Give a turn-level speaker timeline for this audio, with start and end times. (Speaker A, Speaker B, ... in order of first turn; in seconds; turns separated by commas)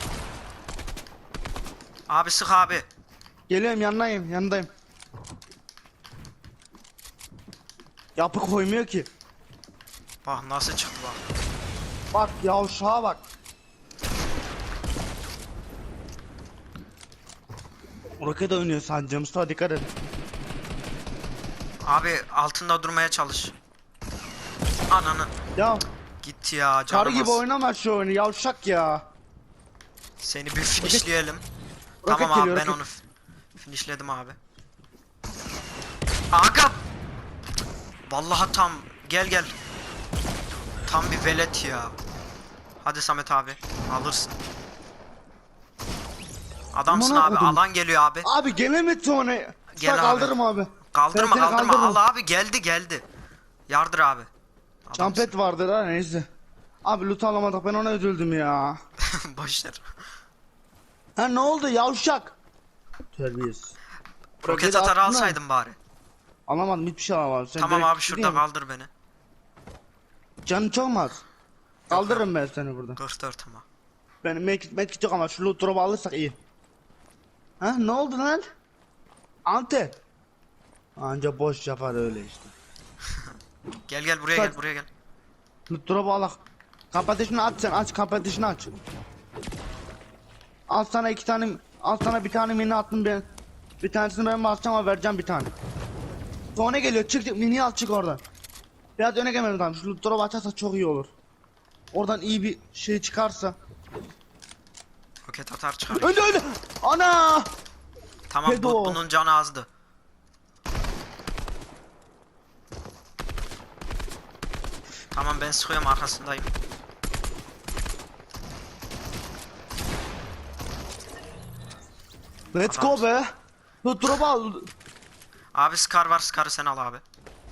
Speaker A: 2.1-2.9, Speaker B: 3.5-4.7, Speaker B: 8.2-9.1, Speaker A: 10.2-11.2, Speaker B: 12.1-13.2, Speaker B: 18.2-19.9, Speaker A: 21.8-23.5, Speaker A: 24.9-25.3, Speaker B: 25.6-25.9, Speaker A: 26.2-27.4, Speaker B: 26.9-29.0, Speaker A: 30.2-31.4, Speaker B: 32.0-32.8, Speaker A: 32.1-33.0, Speaker A: 33.6-34.4, Speaker A: 36.3-36.8, Speaker A: 38.1-39.5, Speaker A: 40.9-42.0, Speaker A: 42.8-44.4, Speaker A: 46.7-48.3, Speaker B: 46.9-47.6, Speaker B: 48.2-52.0, Speaker A: 49.8-50.4, Speaker A: 50.9-53.0, Speaker A: 53.7-54.3, Speaker A: 54.9-55.3, Speaker B: 55.0-56.3, Speaker B: 56.9-58.8, Speaker A: 59.0-59.8, Speaker B: 61.2-62.3, Speaker B: 63.1-63.8, Speaker B: 64.4-65.4, Speaker A: 64.4-65.8, Speaker B: 66.5-68.4, Speaker A: 67.6-68.9, Speaker B: 70.5-71.2, Speaker A: 71.9-72.3, Speaker B: 71.9-73.0, Speaker A: 73.0-73.7, Speaker B: 74.2-76.4, Speaker B: 77.6-78.5, Speaker B: 79.5-80.0, Speaker B: 81.0-82.5, Speaker A: 83.1-83.4, Speaker A: 83.9-84.9, Speaker B: 85.7-86.4, Speaker B: 86.9-88.7, Speaker B: 90.7-93.2, Speaker B: 93.8-95.5, Speaker B: 96.5-98.2, Speaker B: 99.0-101.1, Speaker B: 101.9-103.6, Speaker A: 105.3-106.2, Speaker B: 105.9-107.5, Speaker A: 108.3-109.7, Speaker B: 108.4-109.0, Speaker A: 115.1-116.5, Speaker B: 122.5-123.3, Speaker A: 122.7-123.0, Speaker B: 123.8-124.7, Speaker A: 125.5-127.0